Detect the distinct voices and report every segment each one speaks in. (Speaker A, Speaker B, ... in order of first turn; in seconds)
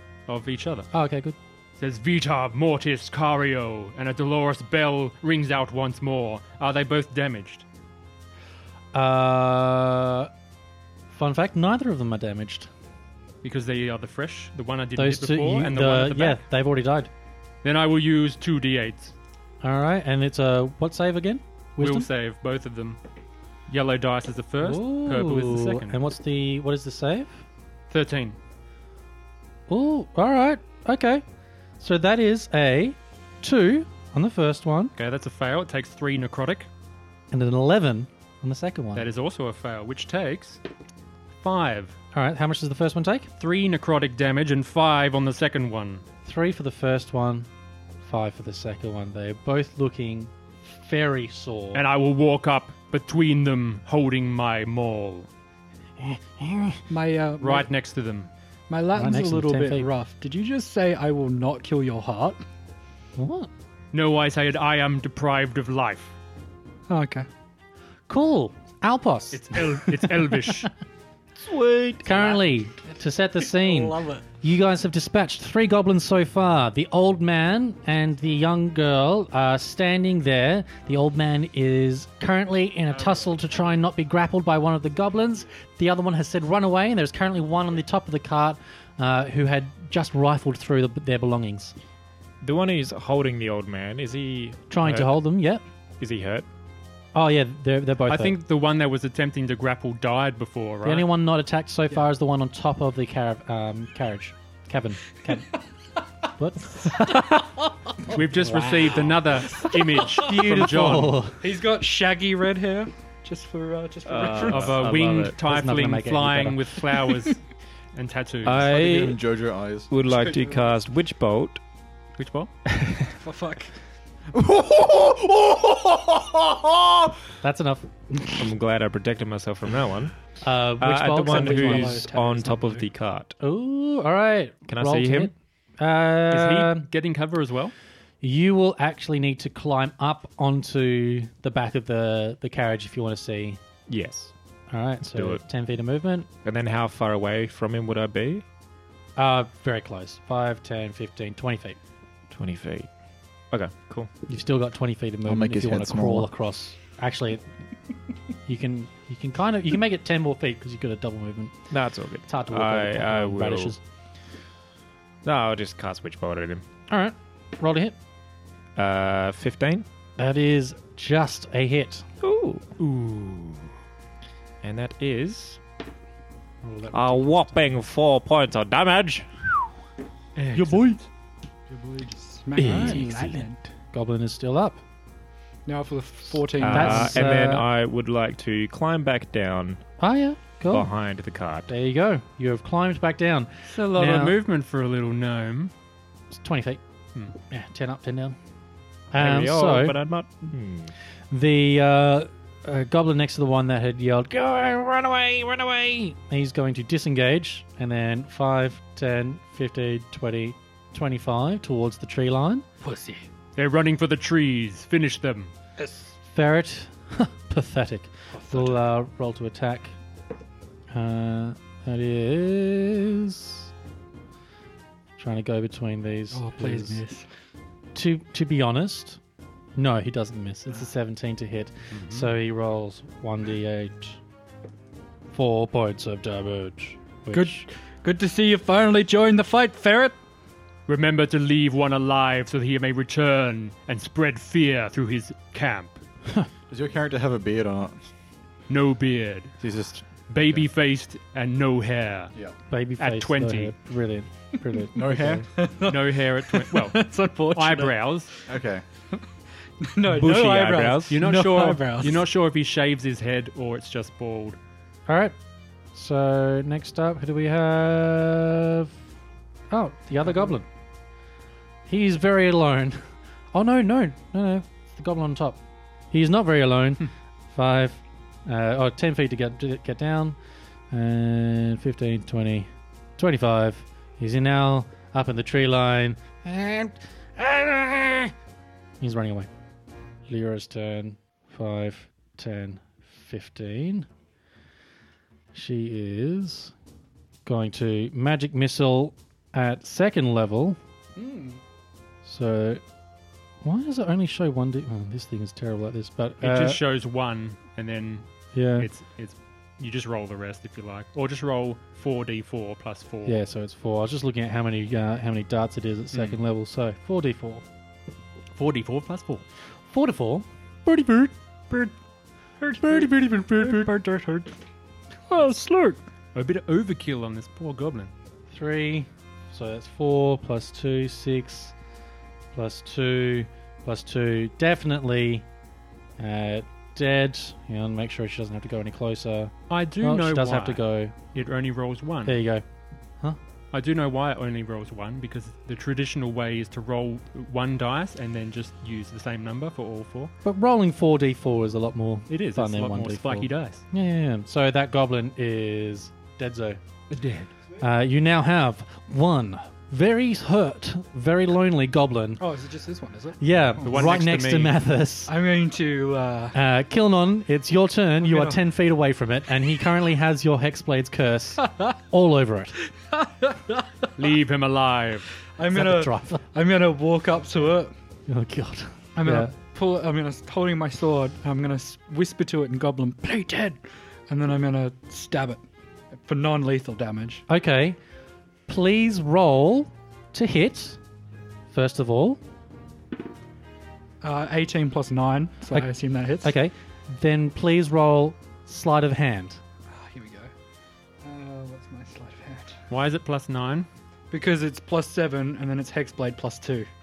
Speaker A: 0.3-0.9, 1.8-7.6, 13.4-16.4, 17.6-19.1, 21.8-23.0, 23.7-25.9, 27.9-28.4, 35.0-36.7, 39.0-40.6, 41.4-42.0, 43.4-46.0, 51.7-55.3, 57.4-58.3, 63.9-66.1, 69.3-70.7, 98.1-101.1, 108.1-111.2, 114.4-117.4, 118.0-118.6, 122.2-122.5, 136.3-137.7, 180.3-181.0, 193.7-195.7, 213.6-215.5, 231.9-232.3, 240.9-246.0, 248.7-249.6, 250.3-252.3, 253.0-253.7, 255.9-258.3, 260.9-264.6, 306.4-313.4, 316.1-316.4, 318.6-319.4, 326.3-328.1, 339.7-340.8, 341.3-342.4, 343.7-350.3, 352.3-353.8, 357.1-357.5, 363.8-364.8, 374.2-375.3, 402.9-403.9
Speaker B: 0.9-1.4, 8.9-10.3, 11.1-12.7, 14.9-17.1, 19.6-22.1, 24.6-27.4, 29.7-31.2, 31.8-34.9, 37.3-39.1, 42.1-43.3, 46.2-47.5, 48.0-51.8, 56.0-56.8, 59.0-59.9, 63.2-63.5, 68.1-70.4, 72.0-91.7, 94.7-95.6, 97.1-98.4, 100.8-105.5, 106.4-107.5, 108.1-109.1, 110.2-111.4, 114.9-116.7, 127.4-128.5, 130.4-132.0, 133.4-136.9, 138.2-143.6, 144.7-146.3, 149.2-151.8, 154.3-157.4, 158.5-161.7, 162.3-163.8, 166.9-167.9, 170.2-172.1, 176.6-177.5, 180.5-181.0, 182.6-184.8, 186.6-187.7, 190.0-190.9, 191.7-194.4, 196.3-196.8, 197.5-198.4, 199.1-200.0, 201.3-212.7, 216.2-219.9, 220.9-223.7, 225.2-227.0, 227.9-229.2, 229.8-234.2, 235.3-237.6, 252.7-255.5, 265.1-265.3, 265.9-268.9, 269.7-270.7, 271.9-275.6, 276.1-280.4, 280.9-288.3, 289.0-289.5, 290.3-294.1, 295.5-296.7, 297.4-300.8, 302.2-302.8, 303.6-306.8, 308.5-308.9, 313.2-317.6, 319.9-321.3, 322.8-323.9, 328.5-331.7, 332.5-335.4, 336.2-341.1, 342.2-342.6, 350.4-356.8, 357.8-362.4, 363.4-365.3, 366.5-372.7, 375.7-376.4, 378.3-379.5, 387.5-388.0, 388.7-391.0, 391.7-392.4, 396.4-399.6
Speaker C: 56.9-57.7, 58.7-62.4, 66.9-67.3, 73.5-74.2, 108.6-110.4, 111.4-114.8, 120.0-120.8, 123.2-123.7, 131.2-132.9, 181.7-183.6, 185.7-187.3, 212.8-213.2, 215.8-216.1, 218.3-218.8, 226.3-227.2, 237.3-240.2, 255.5-258.4, 259.8-262.2, 270.2-270.5, 301.2-301.6, 322.6-324.5, 325.3-326.0, 362.4-363.4, 365.3-366.6, 368.2-368.6, 373.1-374.1, 375.5-377.9, 379.1-385.6, 386.2-387.4, 394.2-396.5, 399.9-400.5, 401.2-402.8, 404.3-406.9
Speaker D: 71.4-72.4, 92.4-95.1, 96.0-96.5, 114.0-115.3, 118.4-119.2, 119.9-121.6, 122.7-123.1, 128.4-130.2, 130.8-133.4, 134.7-135.3, 143.9-144.3, 145.0-145.4, 146.4-148.4, 152.3-152.9, 153.5-154.1, 161.7-163.7, 165.2-166.6, 168.8-169.9, 172.2-173.6, 174.6-175.6, 176.9-179.3, 182.6-183.3, 186.6-189.8, 190.7-191.7, 199.2-200.9, 260.1-261.1
Speaker E: 118.5-119.9, 124.3-127.2, 155.2-156.3, 246.7-248.0, 249.6-250.6, 254.9-255.4, 258.5-258.8